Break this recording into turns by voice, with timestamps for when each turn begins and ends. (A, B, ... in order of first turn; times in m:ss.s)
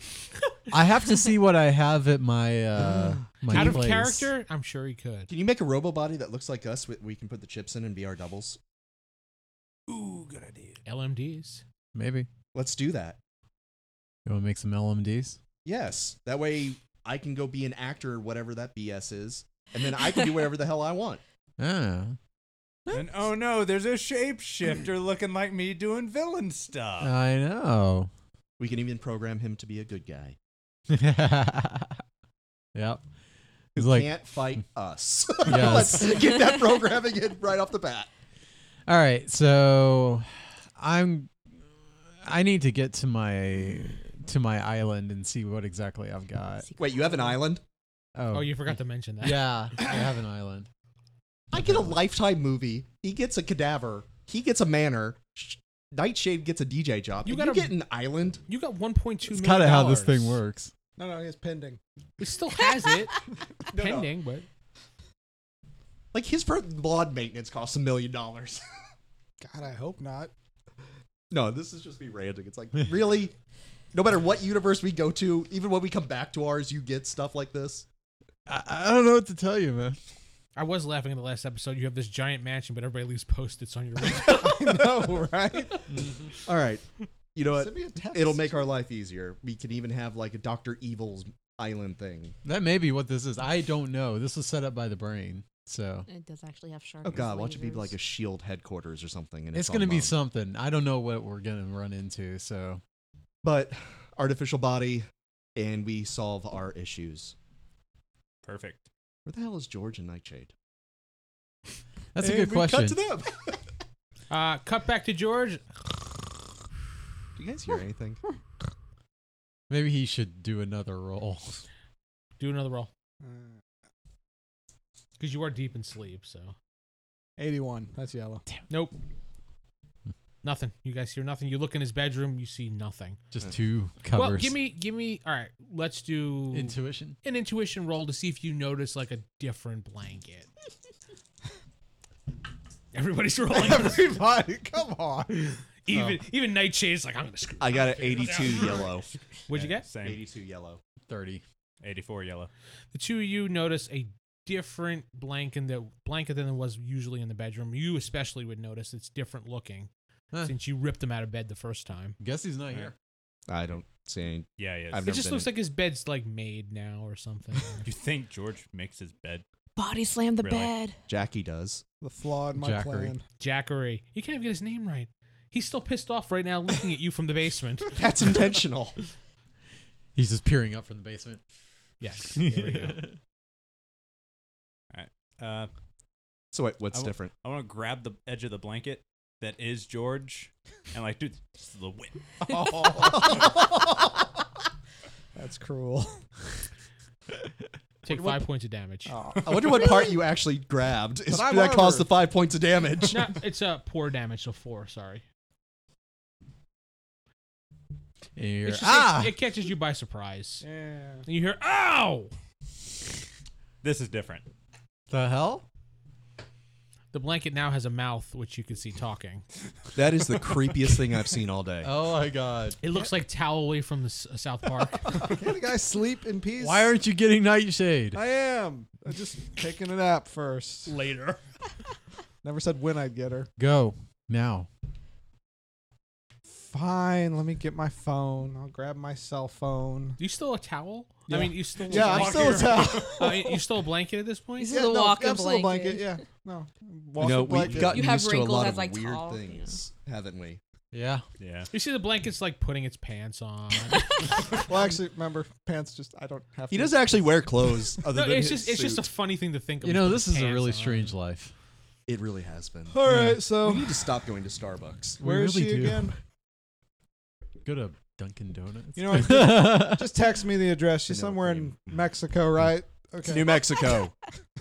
0:00.7-0:04.3 A
0:02.7-0:03.8 B
0:03.5-0:05.3 C
0:05.3-0:08.6 B
0:09.9-0:10.8 D
0:10.8-0:11.6 C
0:11.9-0:12.3 A
0:12.5-0:13.2 B
0:14.2-0:15.4 A
0:15.6-0:21.2 B
0:21.6-0:22.2 A
0:22.9-0:27.1 D
0:27.0-0:28.1 A
0:28.6-0:30.4 B
0:30.9-0:32.0 A
0:32.7-0:33.0 A
0:33.7-0:38.1 B
0:33.8-0:34.1 A
0:35.4-0:36.3 A
0:38.9-0:46.7 A
0:46.6-0:47.4 E
0:46.8-0:47.6 B
0:48.1-0:50.7 A
0:48.3-0:49.6 C
0:51.5-0:58.4 B
0:51.5-0:52.0 A
0:57.2-0:57.8 C
0:58.5-1:00.4 C
0:59.2-1:00.7 A
1:01.0-1:01.8 F
1:02.2-1:04.4 C
1:03.7-1:04.1 B
1:06.1-1:08.6 B
1:09.4-1:10.3 F
1:11.3-1:13.3 B
1:13.9-1:17.8 B
1:18.5-1:20.0 A
1:20.6-1:24.7 C
1:24.2-1:25.8 F
1:25.9-1:26.2 A
1:26.4-1:32.4 B
1:27.5-1:28.7 F
1:32.4-1:36.1 A
1:36.0-1:37.9 E
1:37.0-1:40.1 B
1:39.5-1:42.8 A
1:43.4-1:47.4 B
1:48.4-1:48.8 D
1:49.2-1:50.5 B
1:52.1-1:53.0 A
1:52.2-1:53.6 B
1:54.3-1:55.6 C
1:57.4-1:58.2 B
1:59.7-2:01.6 A
2:02.4-2:02.9 C
2:03.2-2:03.6 F
2:05.2-2:06.5 C
2:07.4-2:08.4 F
2:08.7-2:09.0 C
2:10.4-2:13.2 C
2:13.3-2:14.6 A
2:14.1-2:20.5 C
2:16.5-2:17.2 A
2:22.9-2:24.2 C
2:23.5-2:25.6 F
2:25.8-2:28.9 C
2:25.9-2:26.2 A
2:27.6-2:29.1 B
2:29.5-2:29.8 C
2:29.5-2:30.2 D
2:30.0-2:30.8 B
2:31.1-2:31.4 A
2:31.8-2:32.5 D
2:32.9-2:39.9 C
2:40.4-2:42.2 C
2:42.2-2:42.9 A
2:43.5-2:45.5 B
2:44.6-2:45.1 D
2:45.0-2:47.8 C
2:47.8-2:49.4 D
2:49.8-2:51.0 E
2:50.4-2:50.7 D
2:51.1-2:51.8 B
2:52.0-2:53.2 F
2:52.6-2:53.1 A
2:53.4-2:58.0 C
2:57.9-2:59.0 B
3:00.1-3:01.4 A
3:02.0-3:03.0 C
3:02.4-3:03.2 A
3:04.9-3:05.7 D
3:06.5-3:07.3 B
3:06.9-3:12.2 D
3:12.4-3:13.7 F
3:15.4-3:16.2 F
3:18.0-3:19.2 C
3:19.1-3:20.2 F
3:19.4-3:23.3 B
3:21.2-3:22.1 F
3:23.1-3:25.2 C
3:28.4-3:29.3 A
3:28.6-3:30.6 C
3:30.6-3:31.2 F
3:31.2-3:32.3 C
3:33.8-3:34.5 D
3:35.1-3:35.6 A
3:37.1-3:39.4 C
3:39.9-3:41.9 B
3:41.8-3:42.8 A
3:42.8-3:45.3 C
3:45.1-3:46.9 F
3:46.6-3:48.2 A
3:48.1-3:51.0 F
3:50.9-3:51.4 C
3:52.4-3:53.5 F
3:53.6-3:54.7 A
3:56.5-4:00.2 F
4:00.2-4:04.7 C
4:01.3-4:03.6 F
4:02.2-4:02.9 D
4:04.6-4:06.2 E
4:04.7-4:08.0 F
4:07.2-4:10.6 B
4:07.8-4:09.8 E
4:10.9-4:11.2 A
4:11.4-4:11.7 D
4:11.7-4:14.4 C
4:14.6-4:17.3 F
4:16.7-4:19.0 B
4:18.1-4:21.1 C
4:19.8-4:21.5 A
4:22.1-4:25.2 B
4:22.9-4:24.0 F
4:23.0-4:23.4 A
4:25.2-4:26.1 A
4:25.2-4:26.1 F
4:27.6-4:30.1 A
4:29.0-4:33.9 F
4:31.1-4:32.1 B
4:33.2-4:34.2 B